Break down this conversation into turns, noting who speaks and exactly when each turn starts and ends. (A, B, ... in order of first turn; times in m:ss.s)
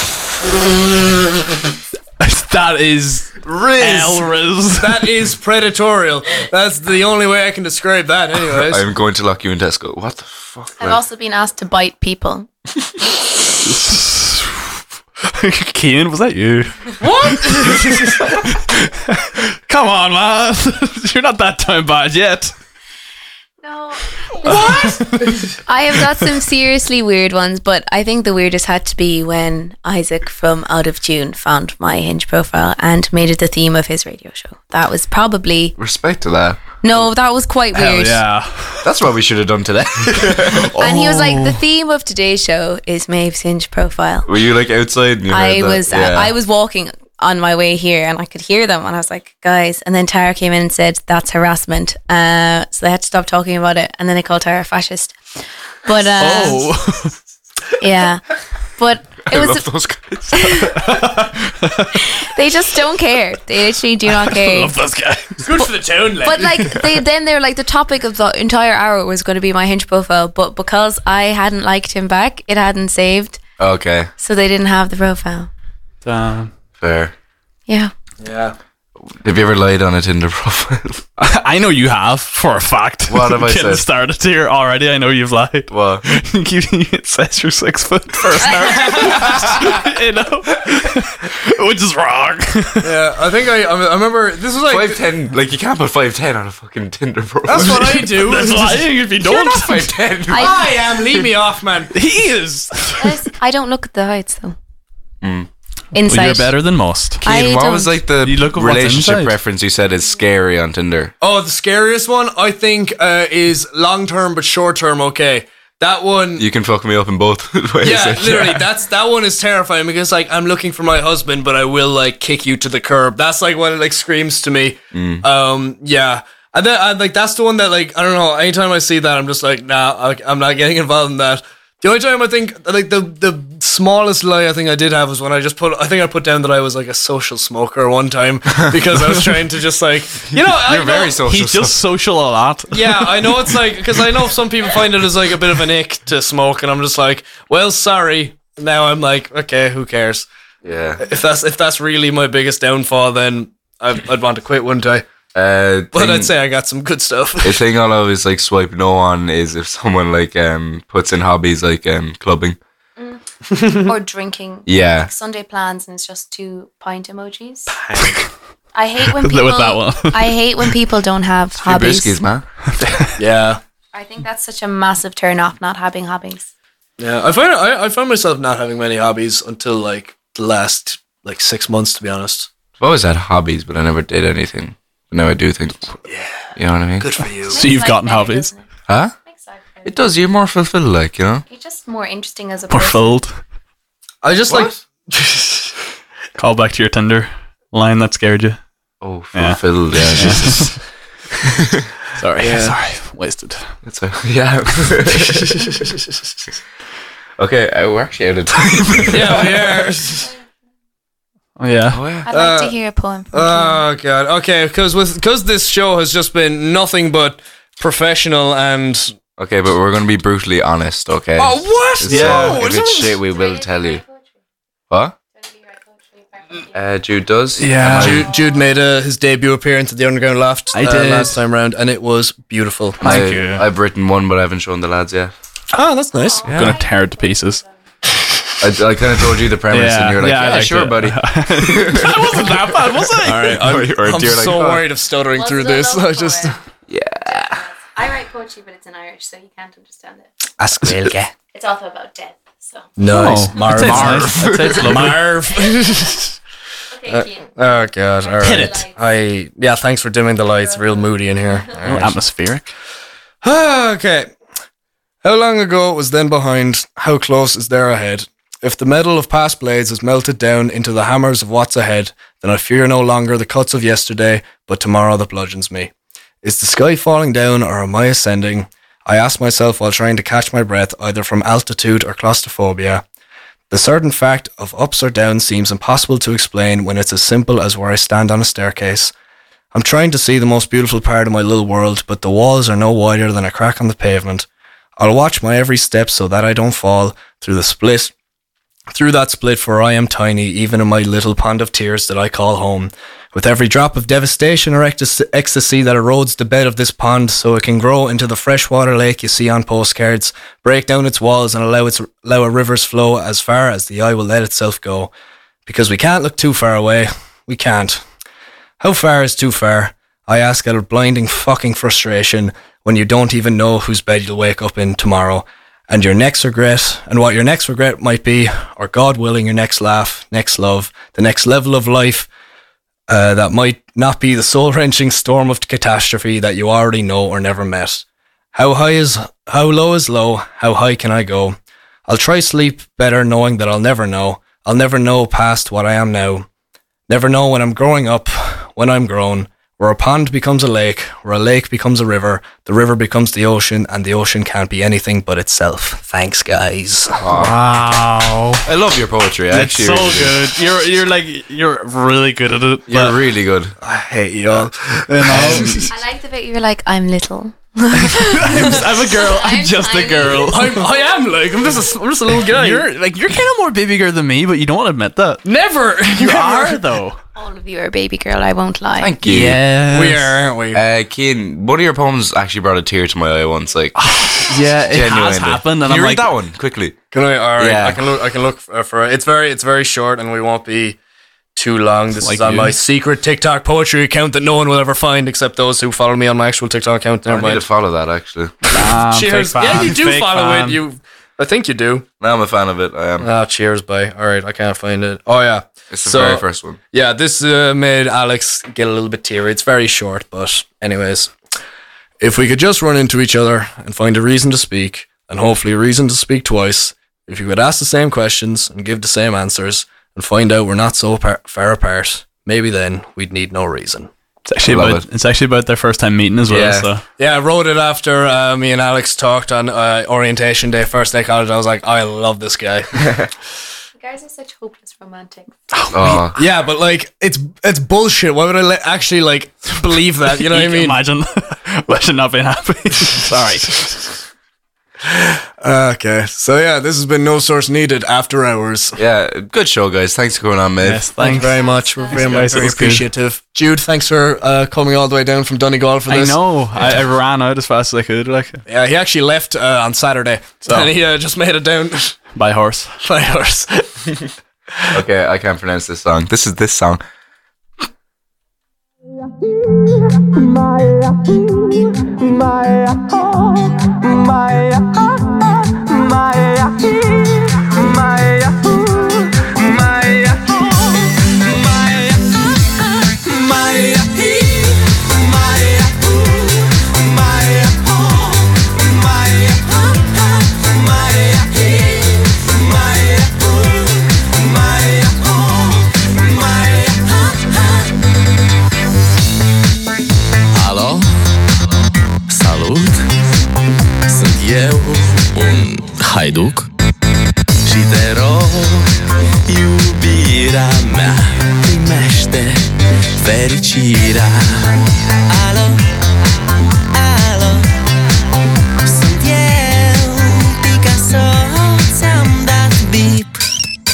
0:02.2-0:05.1 A
0:03.8-0:08.8 B
0:08.5-0:11.0 C
0:10.8-0:12.5 D
0:13.6-0:22.5 A
0:17.0-0:18.2 B
0:23.6-0:35.7 D
0:24.4-0:25.3 A
0:35.8-0:36.7 C
0:36.8-0:38.2 D
0:37.7-0:38.9 A
0:38.8-0:40.7 C
0:40.5-0:41.6 A
0:40.8-0:44.3 D
0:44.3-0:46.3 C
0:45.3-0:55.2 D
0:55.8-0:56.7 D
0:56.2-0:57.1 A
0:57.8-0:58.2 D
0:58.8-0:59.7 D
0:59.2-1:00.7 C
1:00.3-1:00.8 D
1:00.7-1:02.1 A
1:01.9-1:04.7 D
1:04.1-1:05.4 A
1:05.4-1:06.9 B
1:05.6-1:13.4 D
1:13.6-1:14.1 C
1:14.2-1:15.5 D
1:16.0-1:16.5 A
1:16.8-1:17.1 C
1:18.2-1:18.6 B
1:19.1-1:21.0 C
1:21.2-1:32.9 A
1:23.1-1:23.8 C
1:25.7-1:26.0 C
1:28.5-1:29.2 D
1:32.8-1:35.0 B
1:34.7-1:38.1 C
1:37.4-1:38.8 B
1:37.6-1:39.9 A
1:39.2-1:40.6 C
1:40.3-1:40.6 D
1:40.3-1:41.9 B
1:41.9-1:43.2 A
1:43.0-1:44.6 D
1:45.2-1:45.5 C
1:45.9-1:46.5 D
1:46.0-1:47.2 A
1:47.2-1:51.1 C
1:47.2-1:48.0 D
1:48.2-1:49.3 A
1:51.2-1:56.4 B
1:56.4-1:58.6 C
1:57.8-2:21.1 B
2:04.9-2:05.2 C
2:18.7-2:19.0 C
2:20.3-2:21.8 C
2:21.2-2:23.6 A
2:22.7-2:30.3 B
2:30.6-2:31.0 C
2:31.0-2:35.1 B
2:35.3-2:36.3 C
2:35.9-2:37.6 B
2:37.4-2:42.6 C
2:43.0-2:47.7 D
2:44.7-2:45.1 C
2:47.7-2:48.2 B
2:48.7-2:52.2 D
2:49.0-2:50.7 A
2:51.6-2:52.4 C
2:53.2-2:53.6 B
2:53.9-2:56.5 D
2:57.0-3:02.5 B
3:02.8-3:05.9 C
3:06.1-3:06.3 B
3:06.6-3:07.1 C
3:07.0-3:07.7 B
3:07.5-3:08.7 D
3:07.5-3:08.5 A
3:08.9-3:09.1 C
3:09.2-3:10.0 D
3:09.8-3:11.4 C
3:11.5-3:13.2 D
3:12.7-3:13.4 A
3:14.2-3:15.7 B
3:16.4-3:18.6 A
3:19.0-3:20.8 C
3:19.3-3:20.8 A
3:21.4-3:21.8 C
3:22.2-3:23.8 A
3:22.4-3:22.7 B
3:23.8-3:25.8 C
3:27.4-3:29.8 C
3:29.1-3:30.3 B
3:31.6-3:32.0 A
3:31.9-3:32.3 C
3:32.2-3:33.8 D
3:32.3-3:32.8 B
3:33.3-3:39.1 B
3:39.4-3:44.0 C
3:41.4-3:43.2 B
3:42.0-3:42.7 A
3:43.3-3:44.2 D
3:44.9-3:45.1 C
3:45.4-3:46.7 D
3:46.7-3:48.3 C
3:47.6-3:48.3 A
3:47.8-3:53.0 B
3:50.7-3:51.4 A
3:53.0-3:55.3 C
3:53.0-3:53.7 A
3:55.7-3:56.8 B
3:56.1-3:57.7 D
3:56.5-3:57.6 A
3:58.6-4:04.8 C
3:59.7-4:03.6 A
4:03.2-4:06.6 B
4:05.3-4:06.6 D
4:06.9-4:07.6 C
4:07.2-4:10.3 D
4:10.6-4:11.3 B
4:11.5-4:12.9 D
4:13.0-4:16.3 B
4:13.1-4:15.3 A
4:13.7-4:15.1 C
4:15.5-4:16.1 D
4:16.9-4:18.9 D
4:17.0-4:22.2 B
4:18.4-4:18.9 A
4:20.6-4:21.0 D
4:21.8-4:22.7 A
4:23.4-4:24.3 B
4:25.2-4:35.9 B
4:36.4-4:43.0 B
4:43.7-4:49.1 B
4:49.7-4:54.4 B
4:55.0-4:58.1 B
4:58.9-5:15.1 B
5:15.6-5:18.0 B
5:18.8-5:32.3 B
5:33.1-5:41.6 B
5:42.1-5:46.5 B
5:47.1-5:57.2 B
5:57.2-5:57.6 C
5:57.3-5:58.6 A
5:58.6-6:00.4 C
5:59.5-6:03.2 A
6:02.9-6:03.8 C
6:03.8-6:05.8 B
6:05.1-6:05.9 A
6:05.3-6:05.7 C
6:05.9-6:11.1 D
6:08.4-6:10.7 A
6:08.4-6:09.1 B
6:10.5-6:12.9 B
6:12.4-6:15.4 A
6:15.4-6:16.8 B
6:16.1-6:17.2 A
6:17.4-6:19.1 D
6:19.0-6:19.6 C
6:19.2-6:20.4 A
6:19.3-6:20.8 B
6:20.7-6:23.9 C
6:24.0-6:26.3 A
6:24.9-6:27.0 C
6:27.1-6:31.0 B
6:27.6-6:28.1 C
6:31.5-6:37.6 B
6:32.2-6:32.7 A
6:37.3-6:38.6 C
6:38.7-6:40.8 A
6:39.1-6:42.0 B
6:42.2-6:43.3 C
6:43.2-6:51.3 B
6:45.9-6:46.8 C
6:52.2-7:04.1 B
7:04.5-7:07.0 A
7:04.7-7:05.0 C
7:06.5-7:06.9 C
7:07.2-7:12.9 B
7:13.0-7:13.3 C
7:14.0-7:15.5 D
7:15.7-7:16.2 A
7:15.9-7:16.4 C
7:16.3-7:21.0 B
7:20.4-7:24.2 A
7:25.1-7:29.0 B
7:29.0-7:31.0 C
7:30.8-7:31.6 A
7:31.2-7:36.4 B
7:31.4-7:32.3 D
7:32.2-7:33.1 A
7:36.1-7:38.6 A
7:38.7-7:42.2 B
7:40.6-7:40.9 A
7:42.3-7:42.9 A
7:43.0-7:43.9 B
7:44.9-7:47.0 C
7:52.2-8:17.9 E
8:20.5-8:21.2 E
8:22.3-8:23.1 E
8:24.1-8:26.7 E
8:27.6-8:35.8 E
8:36.9-8:37.7 E
8:38.8-8:43.4 E